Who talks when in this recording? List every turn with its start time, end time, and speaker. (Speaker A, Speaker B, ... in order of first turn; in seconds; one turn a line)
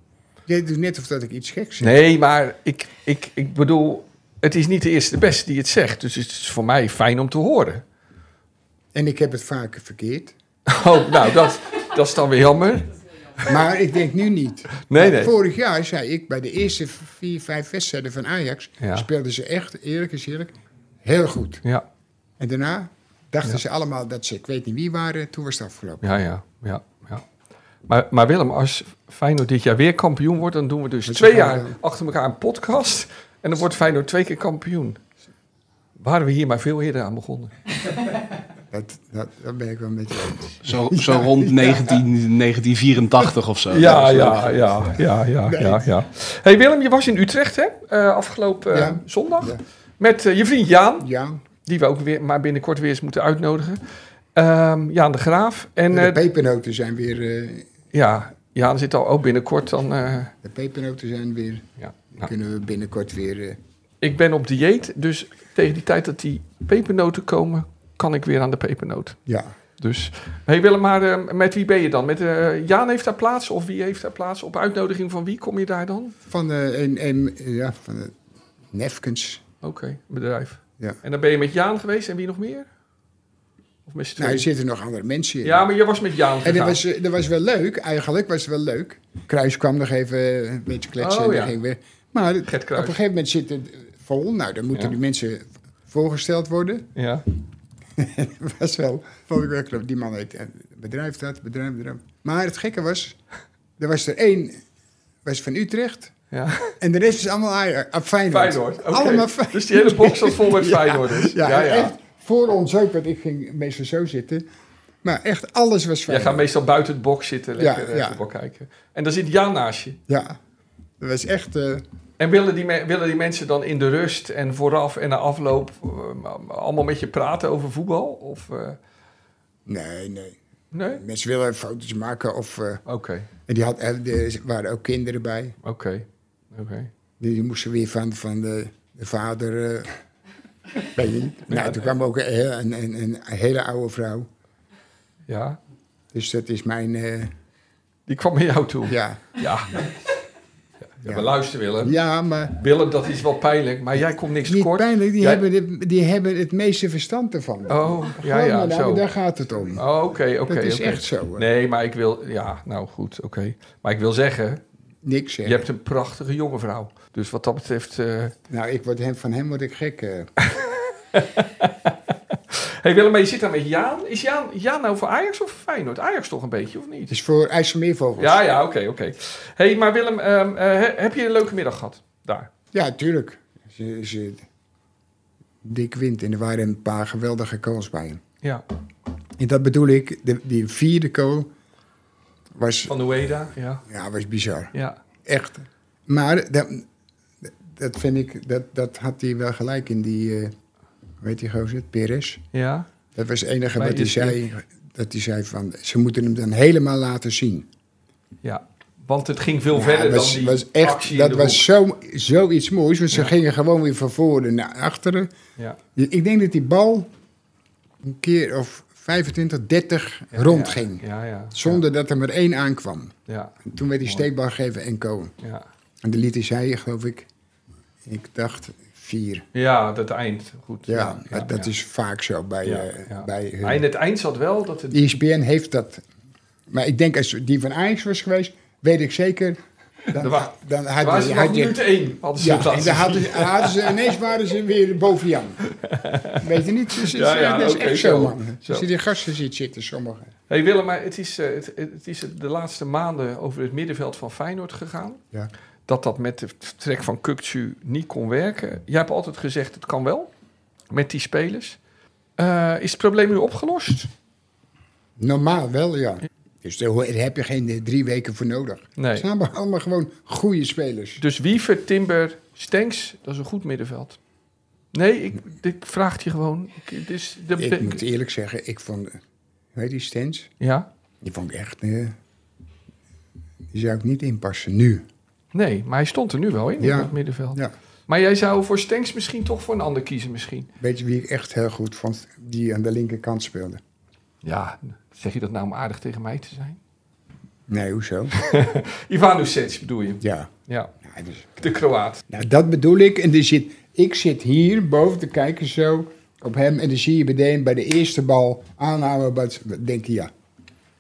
Speaker A: 0.5-2.0
Speaker B: 1.8-7.8
Speaker A: 8.9-10.3
Speaker B: 10.7-12.9
Speaker A: 13.4-21.6
Speaker B: 14.8-15.3
Speaker B: 18.8-19.1
Speaker A: 22.4-26.1
Speaker B: 26.0-27.3
Speaker B: 27.9-35.0
Speaker A: 31.1-31.8
Speaker B: 36.0-37.5
Speaker A: 38.7-42.0
Speaker C: 40.6-44.5
Speaker B: 43.7-51.1
Speaker A: 43.8-45.9
Speaker A: 48.7-49.6
Speaker A: 51.0-51.4
Speaker B: 51.7-53.8
Speaker B: 54.4-56.2
Speaker A: 55.9-57.7
Speaker B: 57.9-60.3
Speaker A: 60.4-63.6
Speaker B: 61.8-62.3
Speaker B: 64.0-69.2
Speaker A: 69.3-69.5
Speaker B: 69.8-76.2
Speaker A: 76.3-78.2
Speaker A: 78.7-79.4
Speaker B: 79.6-82.7
Speaker B: 83.9-84.5
Speaker A: 84.2-85.7
Speaker B: 85.4-86.8
Speaker A: 86.4-96.9
Speaker B: 91.0-91.5
Speaker B: 92.4-93.0
Speaker B: 97.0-97.2
Speaker A: 98.0-103.2
Speaker A: 103.8-104.6
Speaker A: 105.2-106.1
Speaker B: 106.3-106.8
Speaker A: 106.8-114.5
Speaker B: 108.3-111.9
Speaker A: 115.0-116.5
Speaker B: 116.1-120.0
Speaker A: 117.6-118.2
Speaker A: 120.1-120.4
Speaker A: 121.0-121.8
Speaker B: 122.2-128.8
Speaker A: 129.7-130.4
Speaker B: 130.7-131.0
Speaker A: 130.9-132.8
Speaker B: 132.9-133.3
Speaker A: 133.5-135.6
Speaker B: 135.6-136.9
Speaker A: 137.2-140.0
Speaker A: 140.8-144.3
Speaker B: 141.5-141.9
Speaker B: 145.3-145.6
Speaker A: 146.1-147.3
Speaker B: 148.1-149.8
Speaker A: 148.9-149.3
Speaker B: 151.0-152.0
Speaker A: 151.0-152.6
Speaker B: 152.6-155.4
Speaker A: 154.4-159.8
Speaker B: 157.7-159.1
Speaker B: 159.8-164.6
Speaker A: 160.5-161.5
Speaker A: 165.0-165.7
Speaker B: 165.4-168.3
Speaker A: 168.5-170.3
Speaker B: 170.4-171.9
Speaker B: 172.5-177.2
Speaker A: 177.1-178.4
Speaker B: 178.2-182.5
Speaker A: 182.7-184.4
Speaker A: 185.6-188.2
Speaker A: 189.4-191.5
Speaker A: 192.6-193.0
Speaker B: 192.9-193.8
Speaker A: 193.9-194.7
Speaker B: 194.7-195.0
Speaker A: 195.2-196.9
Speaker A: 197.4-200.5
Speaker A: 201.2-202.4
Speaker B: 202.5-202.9
Speaker A: 203.2-207.7
Speaker B: 203.8-204.4
Speaker B: 208.4-211.7
Speaker A: 209.7-215.3
Speaker A: 216.0-217.1
Speaker A: 218.0-225.3
Speaker B: 220.3-221.8
Speaker B: 223.3-224.3
Speaker A: 226.0-227.3
Speaker A: 228.1-229.5
Speaker B: 229.5-231.7
Speaker A: 230.9-233.8
Speaker B: 232.6-235.2
Speaker A: 234.9-236.0
Speaker A: 236.7-239.6
Speaker A: 240.1-241.8
Speaker B: 240.1-244.2
Speaker A: 242.3-245.6
Speaker B: 245.8-246.4
Speaker A: 246.4-250.3
Speaker B: 247.0-248.9
Speaker B: 250.5-255.2
Speaker B: 255.9-260.3
Speaker B: 260.9-261.8
Speaker B: 262.4-264.1
Speaker A: 265.2-271.2
Speaker B: 269.0-269.3
Speaker B: 271.2-274.2
Speaker B: 274.9-278.0
Speaker A: 277.6-279.2
Speaker A: 279.7-280.5
Speaker B: 280.6-280.9
Speaker A: 281.2-282.2
Speaker A: 283.7-285.1
Speaker B: 285.5-290.7
Speaker A: 286.8-287.7
Speaker A: 290.8-293.8
Speaker B: 294.4-296.8
Speaker A: 297.7-298.3
Speaker B: 298.4-300.9
Speaker A: 300.2-300.5
Speaker A: 301.0-301.5
Speaker B: 301.6-302.2
Speaker A: 302.3-310.3